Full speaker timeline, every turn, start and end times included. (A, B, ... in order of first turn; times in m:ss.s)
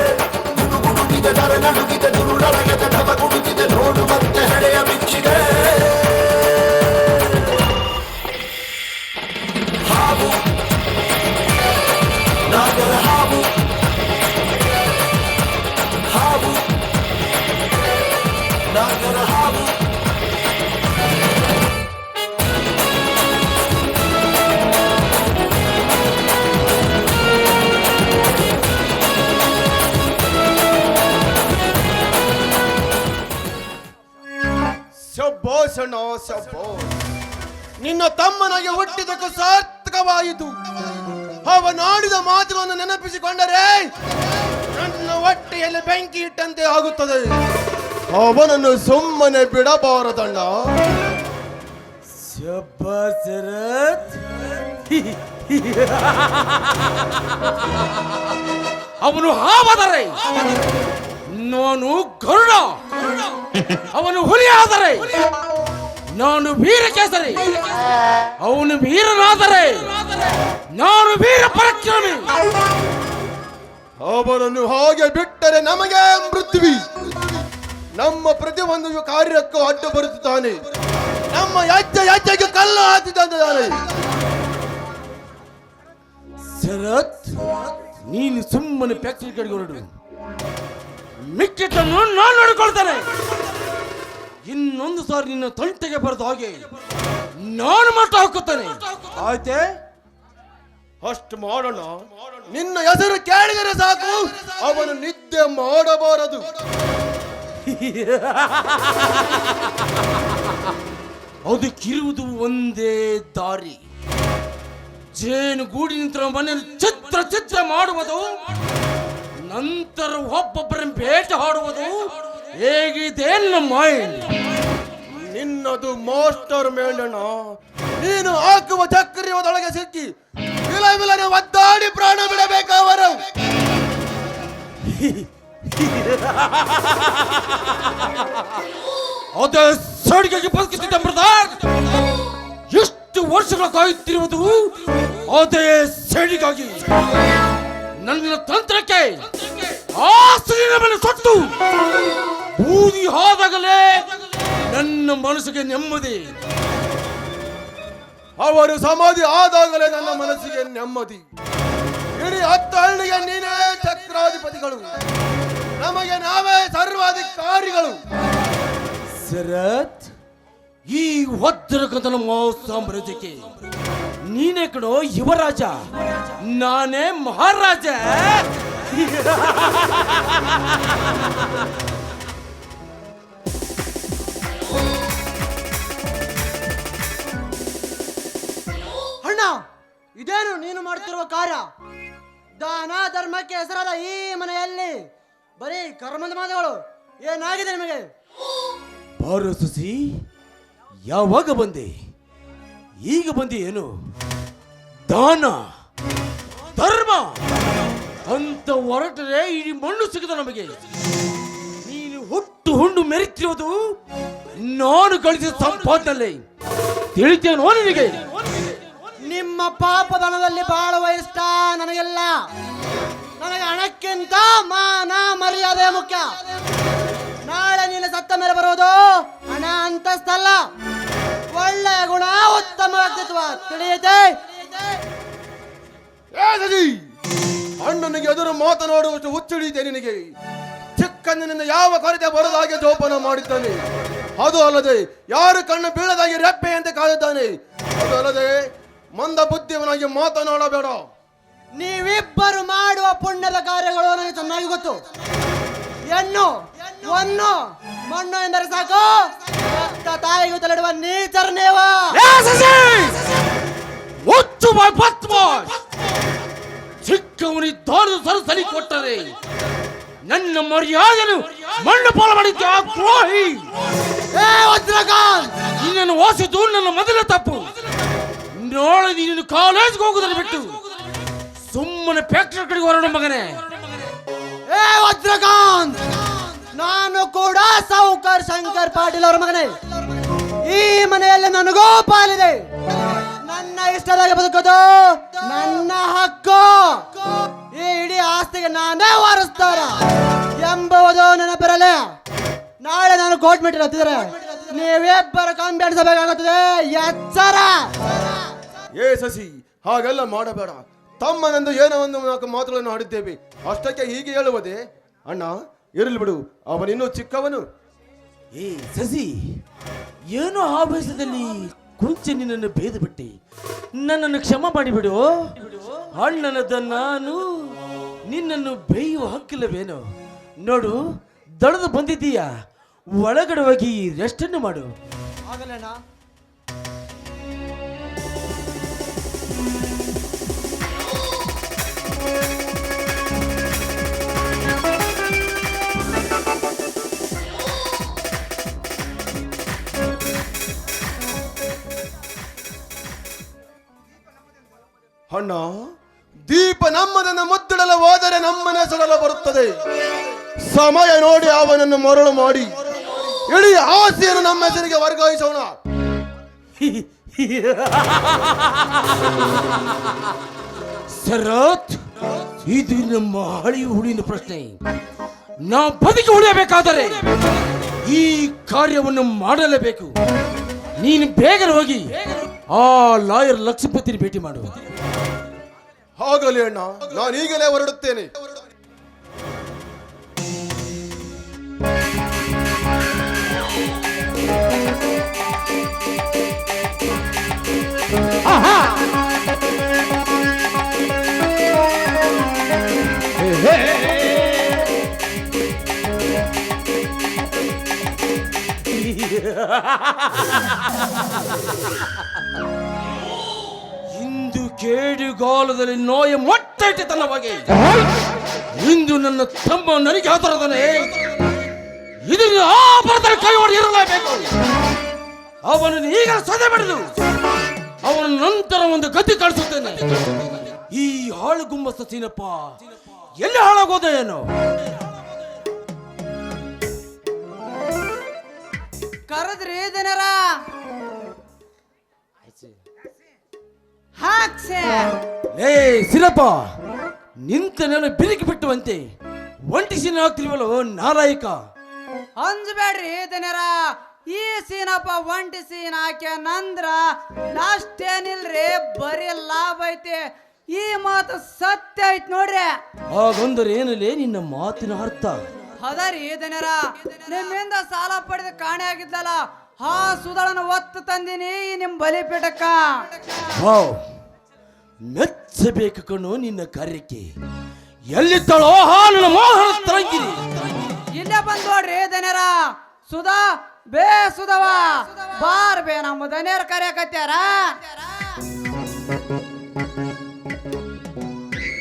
0:00.9-0:05.4 A
0:12.7-0:13.3 A
0:19.1-0:19.4 A
0:35.0-0:36.9 B
0:37.8-0:40.6 B
0:41.4-0:43.9 B
0:44.7-0:47.3 B
0:48.1-0:50.6 B
0:52.2-0:54.2 C
0:54.9-0:56.8 C
0:59.0-1:00.3 C
1:01.3-1:02.9 C
1:03.9-1:05.2 C
1:06.1-1:07.6 C
1:08.4-1:12.4 C
1:14.0-1:17.0 B
1:17.9-1:20.6 B
1:21.3-1:23.8 B
1:26.6-1:29.9 C
1:31.2-1:33.1 C
1:34.4-1:36.6 C
1:37.4-1:39.7 C
1:41.0-1:46.5 B
1:47.7-1:49.1 C
1:51.4-1:53.8 C
1:55.1-1:58.4 C
1:59.5-2:04.3 C
2:05.2-2:07.4 B
2:08.0-2:10.1 B
2:10.7-2:13.2 B
2:15.0-2:15.2 C
2:15.8-2:17.2 C
2:19.3-2:21.6 C
2:22.7-2:26.9 C
2:28.0-2:31.6 C
2:32.6-2:34.1 C
2:34.7-2:36.3 C
2:38.4-2:41.2 B
2:42.2-2:45.0 B
2:45.8-2:48.0 B
2:49.2-2:50.1 C
2:50.9-2:53.5 C
2:54.2-3:00.4 C
3:09.2-3:09.6 D
3:10.2-3:11.6 D
3:12.6-3:15.0 D
3:15.6-3:18.1 D
3:19.2-3:20.2 C
3:21.1-3:21.9 C
3:23.0-3:23.9 C
3:25.1-3:25.7 C
3:26.7-3:27.4 C
3:28.2-3:30.8 C
3:31.8-3:34.0 C
3:34.6-3:36.4 C
3:37.1-3:38.2 C
3:39.2-3:42.4 D
3:43.4-3:46.4 D
3:47.6-3:50.6 D
3:51.5-3:55.0 D
3:56.3-3:57.0 B
3:57.8-4:00.3 B
4:01.0-4:03.8 B
4:04.4-4:08.6 B
4:09.1-4:11.1 B
4:11.8-4:15.0 D
4:16.1-4:17.6 D
4:18.1-4:22.1 D
4:22.1-4:23.2 C
4:24.2-4:25.8 C
4:27.0-4:29.3 C
4:30.2-4:33.7 C
4:34.3-4:35.6 D
4:35.6-4:37.7 C
4:38.5-4:40.8 C
4:41.7-4:43.6 C
4:44.7-4:46.0 D
4:46.7-4:49.7 D
4:50.7-4:52.6 D
4:53.4-4:57.2 D
4:57.7-5:00.0 D
5:00.6-5:01.9 D
5:03.0-5:07.8 D
5:09.0-5:17.6 B
5:18.5-5:19.6 C
5:20.3-5:23.4 C
5:24.0-5:30.0 C
5:30.6-5:31.0 C
5:31.6-5:32.5 C
5:33.2-5:34.9 C
5:35.5-5:36.0 D
5:55.3-5:55.9 B
5:56.5-5:59.8 B
6:00.6-6:02.8 B
6:03.4-6:05.8 B
6:06.8-6:08.8 C
6:11.1-6:12.0 C
6:12.6-6:14.8 C
6:15.6-6:17.2 C
6:18.0-6:20.1 C
6:21.0-6:24.8 C
6:26.2-6:28.3 B
6:43.7-6:44.1 C
6:48.9-6:50.6 C
6:54.1-6:57.9 C
6:58.7-7:01.1 C
7:02.2-7:04.5 C
7:05.6-7:07.1 C
7:08.0-7:10.1 C
7:10.9-7:12.8 C
7:13.4-7:14.5 C
7:19.3-7:20.4 E
7:24.2-7:25.2 E
7:25.5-7:26.7 C
7:27.4-7:29.1 C
7:29.7-7:31.6 C
7:32.4-7:42.8 E
7:43.1-7:45.4 C
7:45.8-7:53.1 E
7:53.6-7:54.0 C
7:55.0-7:57.3 C
7:58.1-8:00.4 C
8:01.1-8:08.1 E